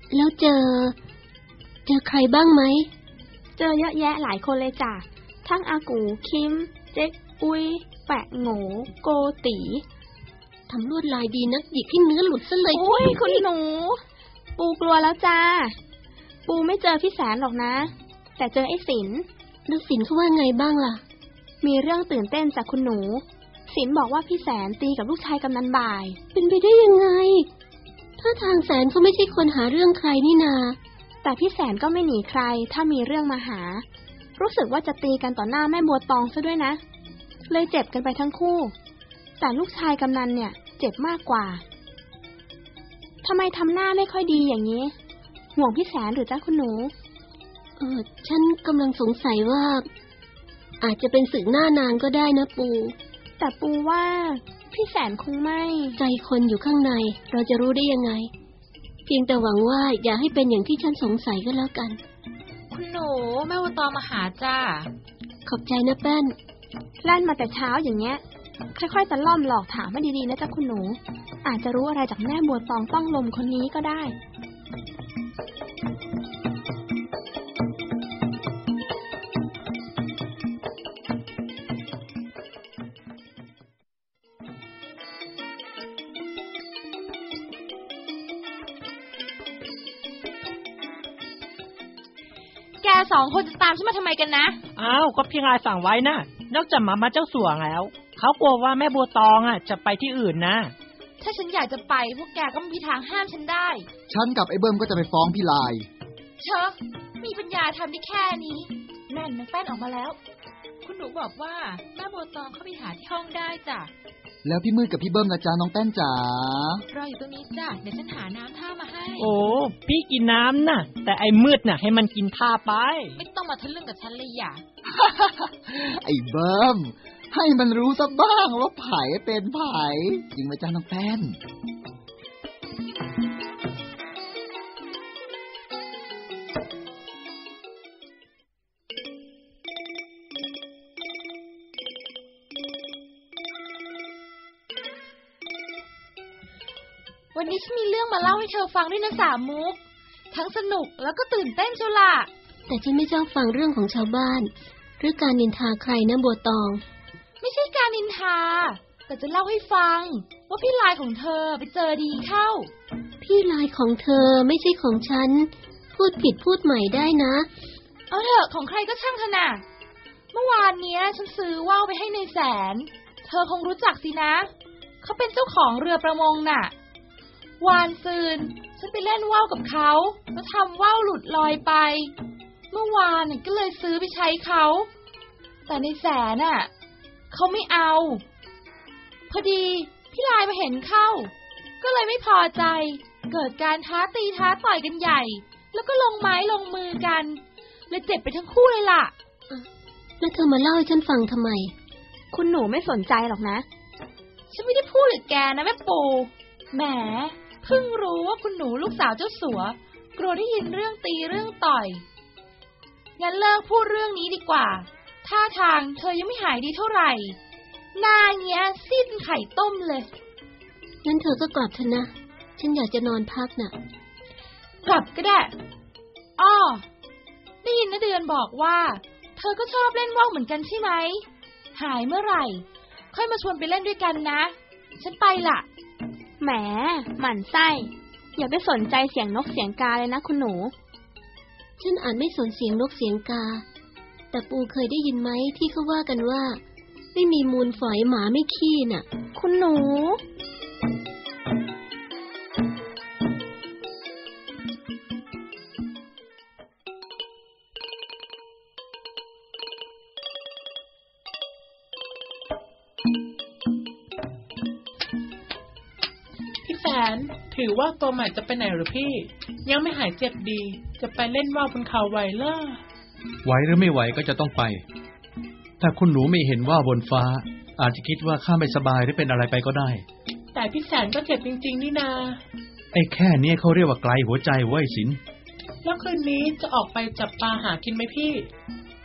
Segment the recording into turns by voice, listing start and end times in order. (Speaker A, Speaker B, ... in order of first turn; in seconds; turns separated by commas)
Speaker A: 0.1-1.0, Speaker A: 1.9-2.9, Speaker B: 3.6-9.8, Speaker A: 10.7-13.4, Speaker B: 12.7-14.0, Speaker B: 14.6-15.8, Speaker B: 16.5-19.3, Speaker A: 19.7-21.0, Speaker B: 21.6-26.2, Speaker A: 26.3-27.5, Speaker A: 28.2-30.8, Speaker B: 31.2-33.9, Speaker B: 34.4-36.8, Speaker B: 37.5-38.7, Speaker B: 39.4-41.6, Speaker B: 43.2-44.9, Speaker B: 45.5-46.9, Speaker A: 47.8-49.9, Speaker A: 50.8-53.0, Speaker B: 53.4-56.0, Speaker A: 56.0-58.3, Speaker A: 59.1-62.0, Speaker C: 62.7-64.9, Speaker A: 65.5-66.4, Speaker B: 67.0-68.2, Speaker B: 68.8-74.2, Speaker C: 92.8-94.6, Speaker D: 94.8-100.8, Speaker C: 101.2-103.9, Speaker E: 104.1-105.9, Speaker C: 106.4-110.2, Speaker C: 110.8-113.9, Speaker E: 114.4-116.8, Speaker C: 116.9-119.3, Speaker D: 119.2-123.2, Speaker C: 123.2-124.6, Speaker E: 125.0-131.4, Speaker C: 147.3-149.8, Speaker C: 150.3-152.3, Speaker A: 152.7-156.8, Speaker C: 157.4-162.7, Speaker A: 163.2-167.5, Speaker C: 168.1-169.6, Speaker C: 170.3-174.5, Speaker C: 175.0-176.7, Speaker C: 177.6-182.1, Speaker C: 182.7-184.9, Speaker C: 185.7-186.7, Speaker C: 187.3-188.2, Speaker C: 189.3-199.1, Speaker A: 200.2-201.7, Speaker B: 202.3-203.7, Speaker C: 204.5-212.0, Speaker C: 213.2-217.4, Speaker C: 217.9-220.1, Speaker A: 221.0-223.8, Speaker C: 224.8-225.5, Speaker C: 226.4-226.8, Speaker C: 227.6-235.7, Speaker B: 236.4-240.7, Speaker A: 241.8-243.7, Speaker A: 244.3-246.6, Speaker A: 247.1-249.1, Speaker B: 249.3-250.2, Speaker F: 266.6-272.8, Speaker G: 273.4-274.8, Speaker G: 275.8-280.0, Speaker F: 280.6-282.4, Speaker G: 282.9-285.2, Speaker F: 285.9-288.5